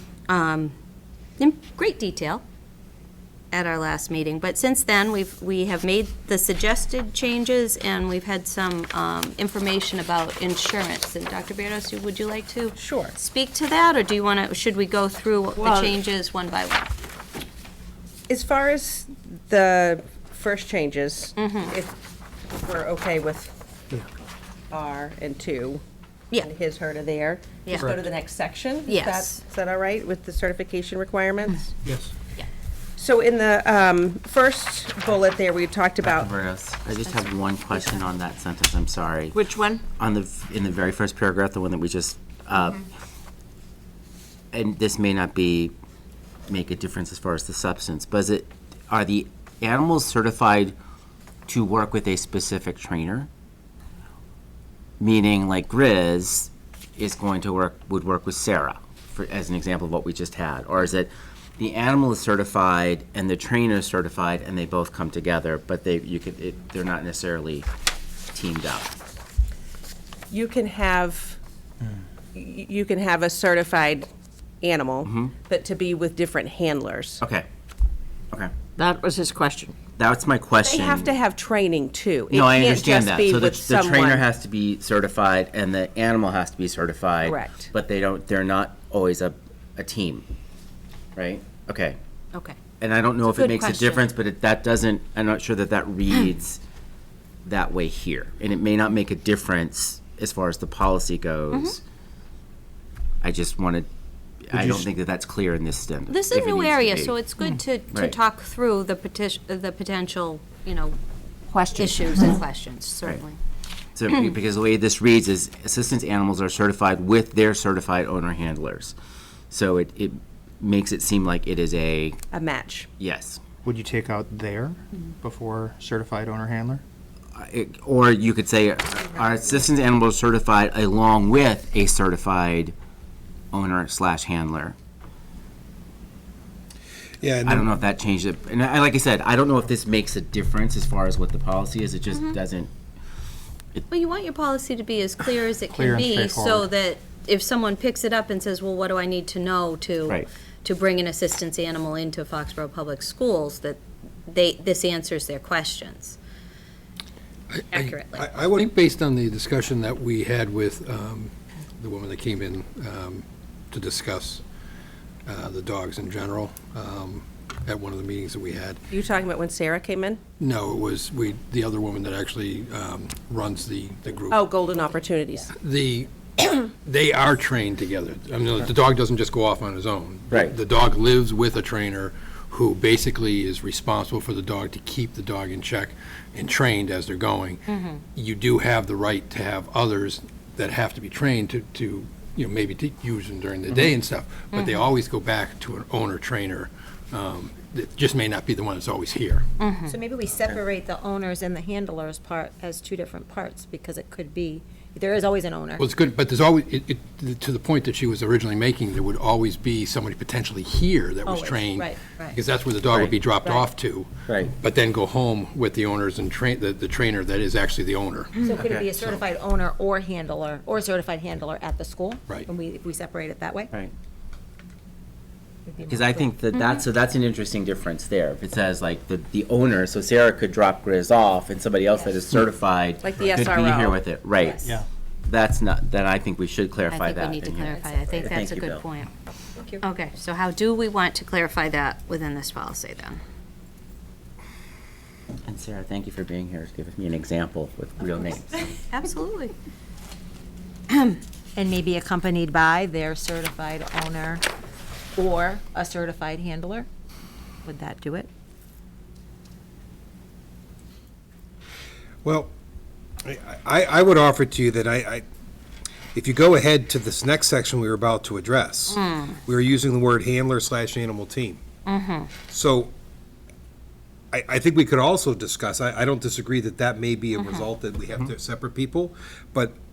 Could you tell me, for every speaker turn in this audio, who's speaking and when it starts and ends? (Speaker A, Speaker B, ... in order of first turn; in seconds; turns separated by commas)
Speaker A: 0.3-0.7, Speaker A: 1.4-2.4, Speaker A: 3.5-16.9, Speaker B: 12.8-13.1, Speaker B: 15.6-16.0, Speaker B: 18.3-21.9, Speaker A: 21.4-21.8, Speaker B: 22.5-23.6, Speaker B: 24.7-25.8, Speaker B: 26.4-31.7, Speaker A: 27.6-28.0, Speaker A: 28.9-29.4, Speaker B: 33.0-36.3, Speaker C: 36.0-39.4, Speaker D: 39.3-39.8, Speaker C: 40.0-42.9, Speaker C: 44.5-45.7, Speaker C: 46.5-50.7, Speaker C: 51.5-53.3, Speaker C: 55.0-67.7, Speaker C: 68.3-68.9, Speaker B: 70.3-71.4, Speaker B: 72.3-74.1, Speaker B: 74.6-77.2, Speaker C: 75.0-75.4, Speaker C: 77.2-77.5, Speaker D: 78.8-79.8, Speaker C: 80.0-81.2, Speaker B: 80.6-84.2, Speaker C: 82.3-90.2, Speaker B: 87.3-87.7, Speaker C: 91.2-92.0, Speaker C: 92.8-96.6, Speaker A: 93.3-94.0, Speaker C: 97.5-101.8, Speaker C: 103.2-103.9, Speaker C: 104.5-107.2, Speaker E: 104.5-104.9, Speaker A: 106.1-111.0, Speaker C: 107.9-108.2, Speaker D: 111.5-112.0, Speaker A: 111.7-113.4, Speaker C: 114.0-118.9, Speaker C: 119.5-122.2, Speaker B: 122.3-122.9, Speaker C: 123.0-123.4, Speaker E: 123.6-126.8, Speaker C: 127.3-132.7, Speaker C: 133.5-134.8, Speaker F: 137.2-137.7, Speaker C: 137.4-142.7, Speaker A: 143.9-156.2, Speaker E: 145.7-146.7, Speaker G: 157.5-164.4, Speaker A: 157.7-158.3, Speaker F: 158.2-158.7, Speaker G: 165.3-168.8, Speaker B: 168.9-170.2, Speaker G: 170.4-174.6, Speaker B: 174.3-175.5, Speaker G: 175.5-187.6, Speaker C: 180.3-180.6, Speaker A: 187.7-188.0, Speaker G: 188.2-199.4, Speaker A: 194.5-194.8, Speaker A: 199.6-199.9, Speaker H: 199.9-205.9, Speaker G: 205.8-219.2, Speaker H: 211.2-212.2, Speaker C: 212.9-213.2, Speaker C: 214.3-214.5, Speaker H: 218.4-223.7, Speaker C: 218.6-218.9, Speaker H: 225.7-226.3, Speaker C: 225.9-234.7, Speaker A: 226.5-226.8, Speaker H: 231.9-232.2, Speaker B: 233.0-234.0, Speaker H: 234.4-234.8, Speaker C: 235.2-238.8, Speaker A: 236.9-239.1, Speaker H: 237.7-238.5, Speaker A: 239.8-243.2, Speaker C: 245.5-248.7, Speaker A: 248.9-249.5, Speaker A: 250.9-251.2, Speaker H: 251.6-254.4, Speaker H: 255.2-256.9, Speaker H: 257.6-258.3, Speaker F: 262.2-262.5, Speaker F: 263.2-265.2, Speaker F: 266.1-271.6, Speaker A: 268.9-269.4, Speaker A: 271.9-272.3, Speaker F: 272.5-272.9, Speaker F: 274.3-279.8, Speaker A: 277.4-277.7